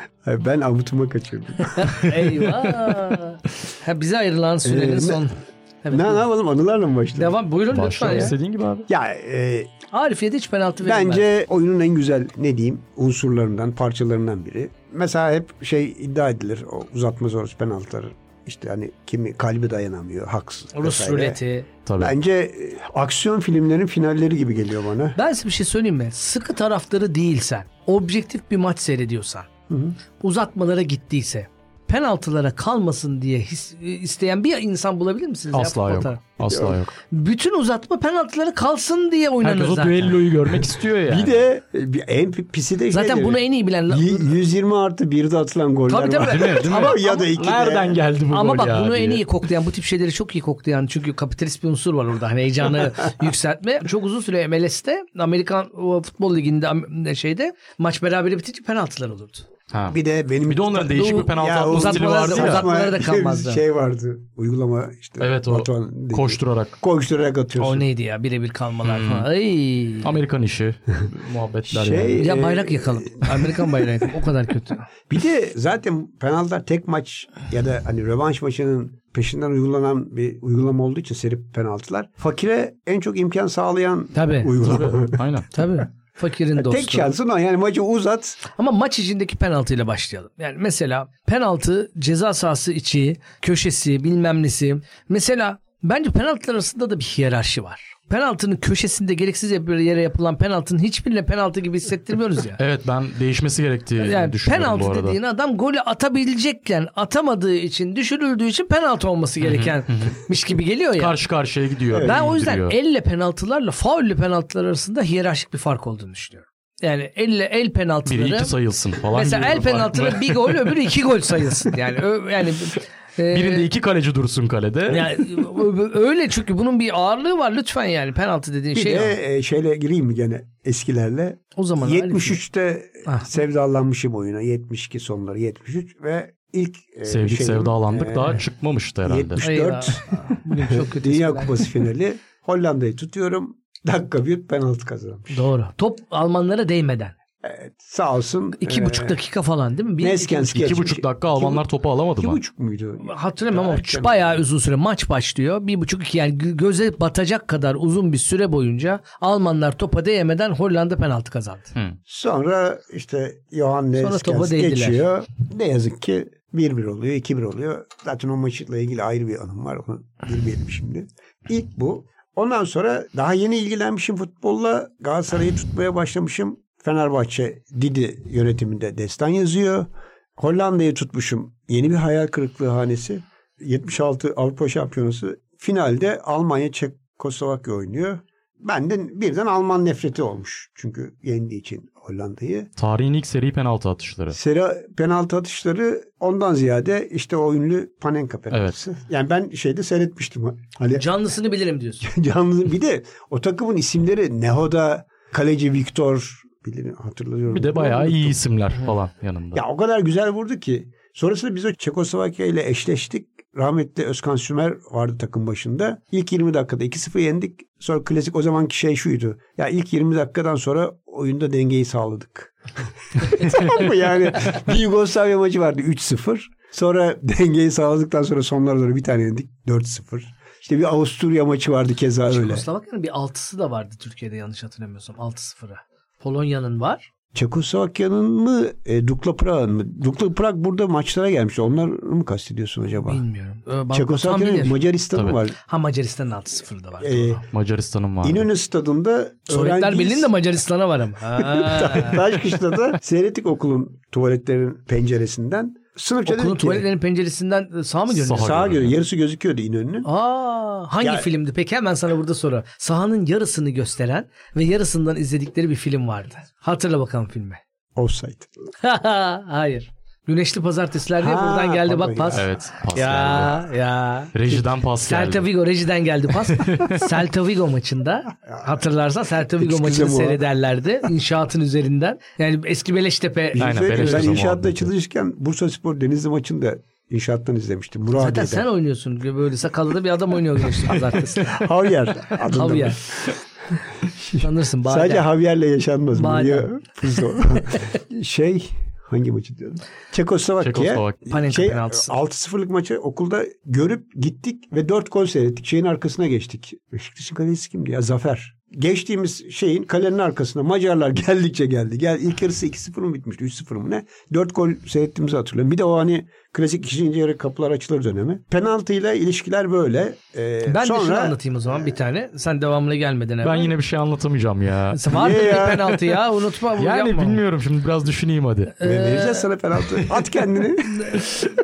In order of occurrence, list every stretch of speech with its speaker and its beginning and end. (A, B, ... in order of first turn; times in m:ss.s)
0:00.2-0:01.9 A
0:01.7-0:06.2 B
0:01.9-0:02.9 C
0:04.6-0:05.3 A
0:05.9-0:07.4 A
0:07.2-0:08.4 B
0:07.7-0:08.9 C
0:08.9-0:09.7 A
0:09.9-0:11.2 B
0:10.8-0:21.4 A
0:20.7-0:21.7 B
0:21.9-0:22.2 C
0:22.0-0:25.2 A
0:25.2-0:29.5 B
0:29.7-0:30.0 A
0:30.2-0:36.2 B
0:35.5-0:37.0 C
0:36.5-0:36.8 A
0:37.1-0:40.2 B
0:39.4-0:41.4 C
0:41.1-0:48.0 A
0:42.9-0:44.3 B
0:45.9-0:47.3 B
0:46.2-0:49.2 C
0:48.3-0:59.5 B
0:59.7-1:02.7 C
0:59.9-1:07.9 A
1:00.9-1:03.6 B
1:05.2-1:06.8 C
1:07.6-1:10.1 B
1:08.8-1:09.3 C
1:10.0-1:12.3 C
1:11.7-1:13.4 A
1:12.2-1:14.9 B
1:15.1-1:25.3 A
1:24.2-1:24.6 B
1:24.6-1:25.5 C
1:25.5-1:27.1 B
1:26.5-1:28.4 A
1:28.5-1:42.6 B
1:42.6-1:45.2 C
1:44.0-1:51.2 B
1:49.4-1:50.2 C
1:51.0-1:52.8 C
1:51.9-1:52.2 A
1:52.0-2:03.7 B
1:58.1-2:00.9 C
2:03.3-2:05.5 C
2:04.9-2:09.2 B
2:08.7-2:18.4 A
2:11.6-2:12.4 B
2:17.1-2:19.4 C
2:19.0-2:25.5 A
2:19.4-2:21.6 B
2:25.3-2:27.1 B
2:27.4-2:29.2 A
2:28.6-2:30.9 B
2:30.0-2:31.7 A
2:30.6-2:32.4 C
2:32.2-2:34.4 A
2:33.0-2:41.7 B
2:42.1-3:12.7 A
2:44.0-2:45.0 B
3:12.8-3:14.4 C
3:14.3-3:21.1 A
3:18.5-3:18.8 C
3:21.0-3:22.1 B
3:22.0-3:28.4 A
3:27.5-3:29.6 C
3:29.5-3:42.6 A
3:43.2-3:52.6 A
3:52.3-3:57.1 B
3:57.3-4:03.2 A
4:03.0-4:04.8 B
4:03.9-4:05.6 A
4:05.2-4:05.4 C
4:05.6-4:07.4 B
4:07.0-4:07.4 A
4:07.5-4:08.5 C
4:08.2-4:10.3 A
4:09.5-4:12.2 B
4:11.4-4:16.9 A
4:16.2-4:18.6 B
4:18.1-4:18.9 C
4:18.3-4:20.1 A
4:20.0-4:27.6 B
4:21.0-4:21.3 A
4:28.0-4:28.5 A
4:28.8-4:34.3 B
4:31.2-4:32.5 A
4:32.3-4:33.7 C
4:34.3-4:35.5 C
4:35.0-4:44.3 B
4:36.3-4:37.1 C
4:39.6-4:40.5 A
4:43.5-4:48.7 A
4:43.6-4:44.9 C
4:48.2-4:51.6 B
4:51.4-4:53.4 A
4:52.5-4:53.0 B
4:54.0-5:21.4 A
4:54.4-4:55.3 B
4:56.2-4:56.7 B
5:00.6-5:01.2 C
5:01.3-5:02.1 B
5:20.7-5:23.7 B
5:23.4-5:26.0 C
5:24.9-5:27.4 B
5:25.1-5:26.0 A
5:26.8-5:28.8 C
5:28.8-5:29.5 B
5:28.8-5:31.3 A
5:30.9-5:31.3 B